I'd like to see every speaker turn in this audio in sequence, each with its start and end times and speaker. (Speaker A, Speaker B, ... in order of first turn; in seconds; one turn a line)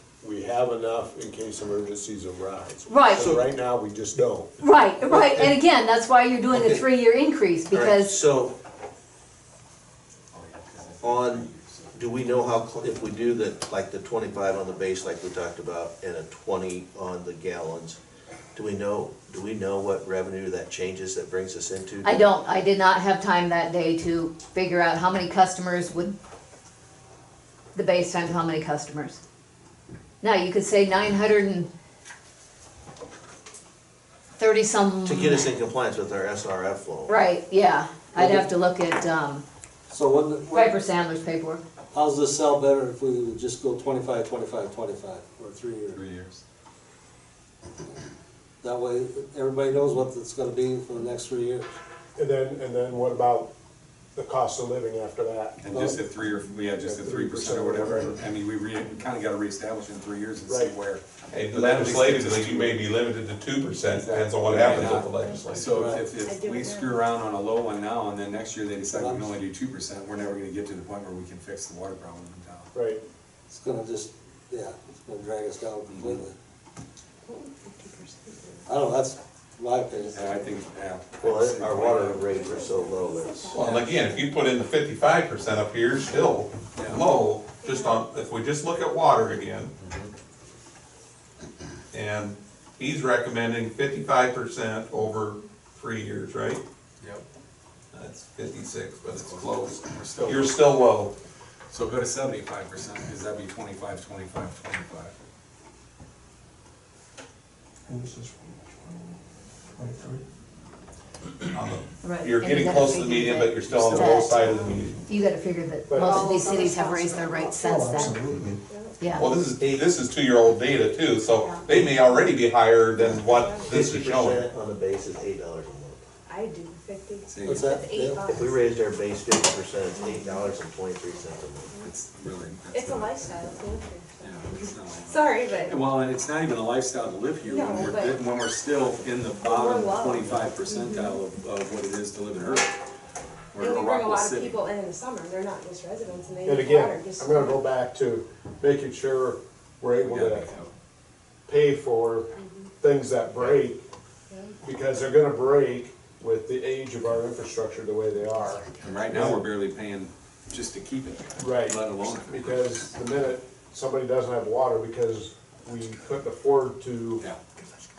Speaker A: 0.2-5.6
Speaker B: 2.9-3.4
Speaker B: 4.6-8.2
Speaker C: 6.5-6.9
Speaker C: 7.7-8.6
Speaker D: 10.3-13.4
Speaker C: 11.0-18.0
Speaker C: 18.5-22.2
Speaker B: 22.0-26.2
Speaker B: 27.7-29.2
Speaker B: 30.2-31.7
Speaker B: 34.4-35.6
Speaker C: 35.0-37.1
Speaker B: 37.1-39.4
Speaker E: 38.1-38.5
Speaker E: 39.9-40.8
Speaker B: 40.5-41.6
Speaker E: 41.9-46.0
Speaker D: 45.9-46.4
Speaker E: 48.6-51.7
Speaker A: 52.1-53.5
Speaker A: 54.1-56.0
Speaker D: 55.6-62.8
Speaker A: 56.7-58.2
Speaker A: 60.5-60.7
Speaker F: 61.3-65.8
Speaker A: 64.0-65.7
Speaker D: 64.2-72.7
Speaker E: 65.6-66.0
Speaker G: 66.2-67.0
Speaker E: 68.9-69.4
Speaker A: 72.7-73.0
Speaker E: 73.5-76.3
Speaker D: 75.9-76.2
Speaker G: 77.2-78.7
Speaker E: 78.7-80.3
Speaker D: 80.1-82.4
Speaker C: 81.2-83.5
Speaker G: 82.3-84.4
Speaker F: 83.5-89.7
Speaker D: 83.6-83.9
Speaker D: 86.7-87.0
Speaker G: 87.6-88.0
Speaker D: 89.8-90.1
Speaker F: 91.9-96.6
Speaker F: 97.9-101.1
Speaker D: 99.1-100.6
Speaker D: 101.7-105.1
Speaker H: 107.9-109.2
Speaker H: 109.8-110.2
Speaker F: 111.5-115.0
Speaker B: 112.0-118.1
Speaker D: 113.6-114.3
Speaker G: 114.4-114.9
Speaker A: 115.9-116.3
Speaker G: 116.0-119.0
Speaker H: 117.6-118.6
Speaker B: 119.0-119.3
Speaker F: 119.1-124.5
Speaker C: 119.6-119.8
Speaker B: 121.4-121.8
Speaker G: 123.0-123.8
Speaker C: 123.7-126.0
Speaker G: 126.3-128.8
Speaker D: 127.2-127.7
Speaker E: 127.4-128.2
Speaker C: 128.3-131.7
Speaker G: 130.0-130.5
Speaker D: 131.8-133.4
Speaker G: 132.7-135.8
Speaker D: 134.2-142.7
Speaker G: 137.4-138.2
Speaker G: 139.4-141.2
Speaker D: 143.5-144.7
Speaker G: 143.6-147.7
Speaker A: 146.4-150.5
Speaker D: 150.0-150.7
Speaker A: 151.4-153.8
Speaker G: 152.4-152.7
Speaker G: 154.3-154.6
Speaker A: 154.6-159.5
Speaker D: 158.8-162.9
Speaker A: 161.4-167.2